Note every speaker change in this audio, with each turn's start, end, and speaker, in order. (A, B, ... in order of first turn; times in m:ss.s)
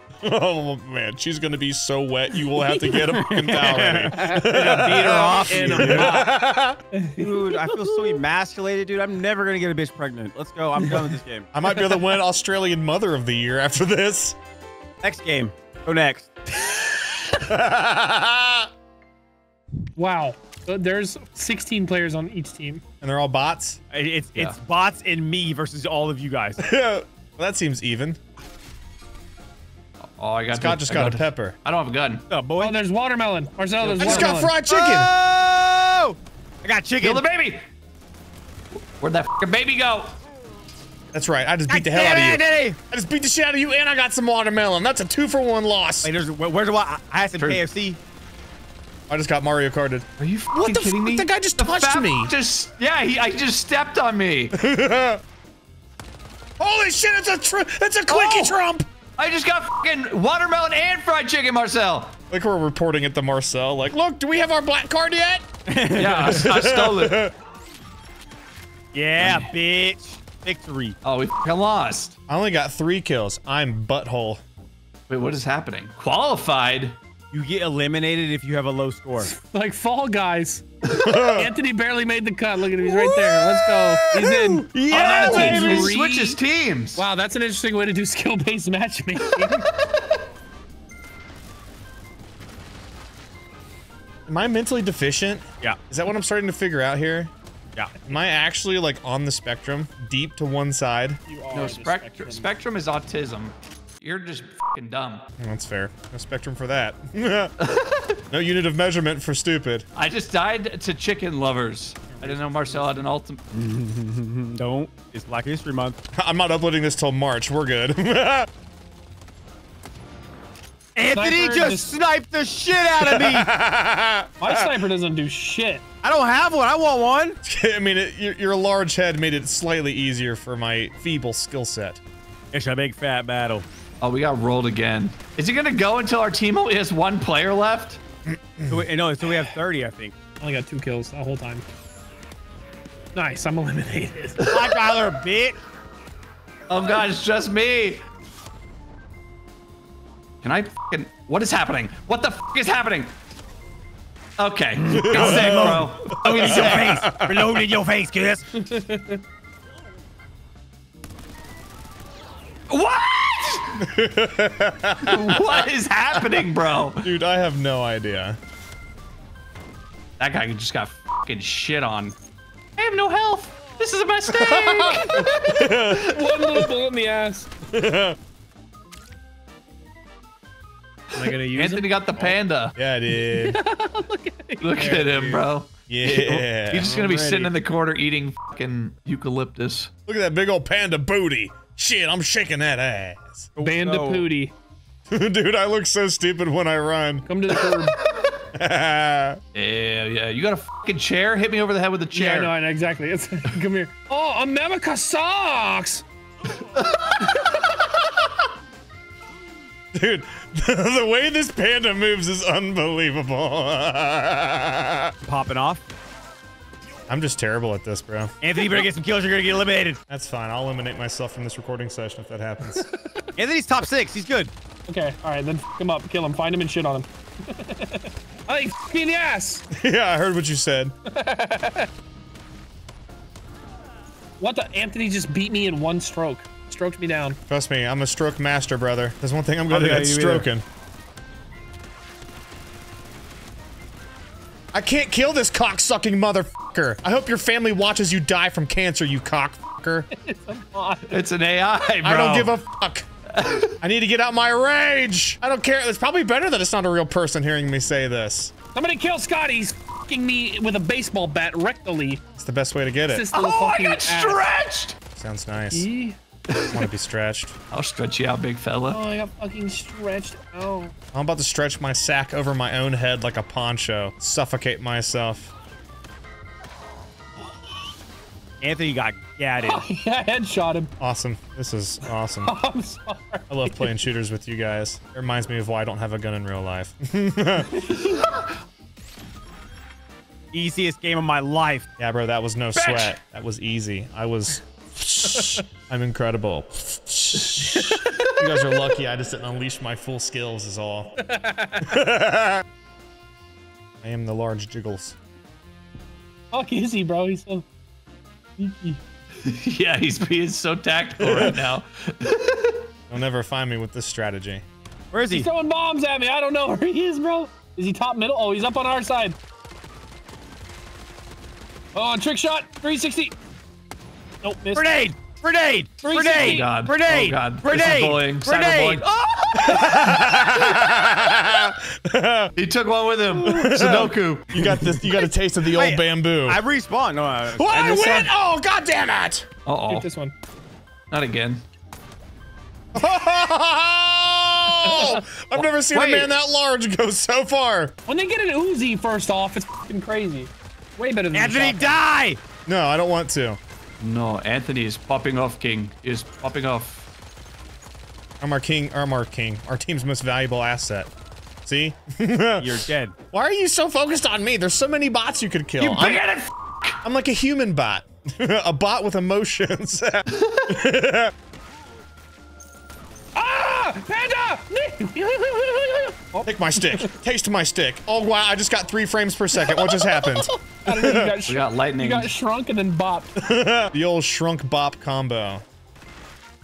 0:00.2-0:06.8 A
0:03.1-0:06.3 B
0:03.7-0:06.3 C
0:06.9-0:08.2 C
0:07.2-0:11.5 B
0:10.8-0:11.1 C
0:11.5-0:14.4 A
0:11.7-0:12.0 C
0:15.0-0:16.3 B
0:17.2-0:18.7 A
0:19.9-0:22.8 C
0:23.0-0:23.8 A
0:23.9-0:26.6 B
0:26.6-0:28.2 A
0:30.0-0:32.2 D
0:30.5-0:31.6 A
0:32.3-0:32.8 B
0:32.6-0:34.5 C
0:33.8-0:37.2 B
0:34.0-0:35.1 A
0:37.0-0:37.6 D
0:38.8-0:40.1 D
0:41.1-0:46.1 A
0:41.7-0:42.8 B
0:46.0-0:48.0 B
0:47.4-0:47.6 D
0:49.1-0:52.3 A
0:50.2-0:54.5 D
0:54.5-0:55.2 A
0:56.6-0:58.9 A
0:58.1-0:58.6 D
0:59.2-1:02.1 D
1:02.3-1:05.4 A
1:05.7-1:06.4 B
1:06.0-1:07.2 D
1:06.2-1:07.3 A
1:08.9-1:11.0 B
1:09.2-1:09.5 D
1:11.0-1:12.1 D
1:12.3-1:14.4 A
1:15.1-1:17.0 D
1:17.3-1:19.3 B
1:19.2-1:20.6 C
1:21.0-1:21.5 A
1:21.3-1:26.4 C
1:22.8-1:25.9 A
1:24.9-1:27.0 D
1:26.9-1:29.6 C
1:29.4-1:29.9 D
1:34.3-1:37.3 A
1:38.0-1:41.2 A
1:41.2-1:42.5 C
1:41.5-1:45.2 D
1:45.4-1:47.5 A
1:47.6-1:48.1 D
1:48.3-1:49.8 A
1:49.9-1:53.4 D
1:52.0-1:53.1 C
1:53.5-1:56.0 B
1:56.2-1:58.5 A
2:01.0-2:03.5 B
2:01.1-2:01.9 C
2:03.0-2:04.7 A
2:04.4-2:05.8 C
2:06.0-2:07.4 B
2:07.4-2:12.0 A
2:12.5-2:13.6 B
2:14.0-2:18.0 D
2:18.3-2:18.8 A
2:18.7-2:20.1 B
2:20.4-2:21.6 C
2:23.1-2:24.5 C
2:24.5-2:25.6 B
2:26.7-2:28.0 D
2:30.4-2:33.1 D
2:34.4-2:37.0 D
2:34.8-2:38.5 B
2:35.0-2:37.5 A
2:38.6-2:39.2 C
2:42.7-2:43.8 D
2:43.8-2:45.6 A
2:45.0-2:47.0 D
2:47.0-2:48.4 A
2:50.2-2:52.1 D
2:52.8-2:56.0 D
2:54.3-2:56.0 A
2:55.0-2:57.5 C
2:57.7-2:58.2 A
3:01.1-3:02.4 C
3:01.2-3:02.7 D
3:02.8-3:03.6 A
3:03.1-3:05.4 C
3:04.6-3:09.9 D
3:05.9-3:06.9 A
3:06.8-3:07.5 C
3:10.1-3:13.5 A
3:13.6-3:14.2 B
3:13.6-3:14.5 C
3:15.1-3:17.2 A
3:17.2-3:18.0 C
3:18.6-3:19.4 A
3:19.5-3:22.5 D
3:22.1-3:26.0 C
3:26.8-3:27.2 D
3:29.9-3:35.1 A
3:35.2-3:35.8 B
3:37.1-3:38.3 A
3:38.4-3:40.0 B
3:40.1-3:42.9 A
3:42.8-3:43.2 C
3:43.4-3:44.5 B
3:44.9-3:49.6 C
3:49.7-3:50.9 A
3:51.1-3:51.9 C
3:54.4-3:57.4 C
3:57.5-4:00.6 A
3:59.7-4:00.5 B
4:04.7-4:10.1 A
4:10.1-4:11.2 C
4:11.1-4:12.6 D
4:12.0-4:13.1 A
4:13.3-4:13.7 D
4:13.8-4:18.5 A
4:18.7-4:22.2 C
4:22.4-4:23.3 A
4:23.0-4:24.5 C
4:23.3-4:25.0 D
4:25.1-4:25.9 A
4:25.7-4:26.2 C
4:26.7-4:27.6 A
4:27.7-4:29.0 D
4:28.9-4:30.9 C
4:31.1-4:35.5 A
4:38.6-4:39.8 B
4:39.6-4:40.9 C
4:41.0-4:42.5 A
4:42.4-4:44.0 C
4:43.5-4:47.8 A
4:50.5-4:51.9 B
4:52.0-5:01.1 A
4:52.7-4:53.2 D
4:57.7-4:58.1 C
5:01.3-5:01.8 C
5:01.8-5:02.6 A
5:04.0-5:05.1 A
5:06.5-5:07.6 C
5:08.6-5:09.0 C
5:09.4-5:12.8 D
5:11.2-5:11.5 A
5:13.1-5:14.6 A
5:15.1-5:15.5 B
5:15.3-5:19.4 C
5:21.9-5:23.3 C
5:24.4-5:24.9 C
5:24.7-5:29.0 B
5:26.0-5:26.8 C
5:26.3-5:29.6 D
5:29.6-5:32.5 A
5:32.6-5:34.5 D
5:33.4-5:36.6 A
5:35.7-5:38.2 B
5:37.6-5:39.4 A
5:37.7-5:38.0 D
5:39.6-5:40.1 D
5:39.9-5:40.3 C
5:41.1-5:41.6 D
5:42.9-5:47.9 A
5:44.8-5:45.2 C
5:45.5-5:46.3 D
5:48.1-5:52.0 C
5:51.3-5:52.4 B
5:52.6-5:53.6 A
5:54.0-5:57.0 D
5:58.4-6:01.1 A
6:01.6-6:02.7 A
6:02.6-6:03.1 B
6:03.3-6:06.2 A
6:05.8-6:07.0 D
6:07.0-6:11.3 A
6:10.3-6:10.7 D
6:13.4-6:17.1 C
6:16.4-6:21.3 A
6:19.6-6:23.3 C
6:21.5-6:22.3 D
6:23.4-6:25.6 A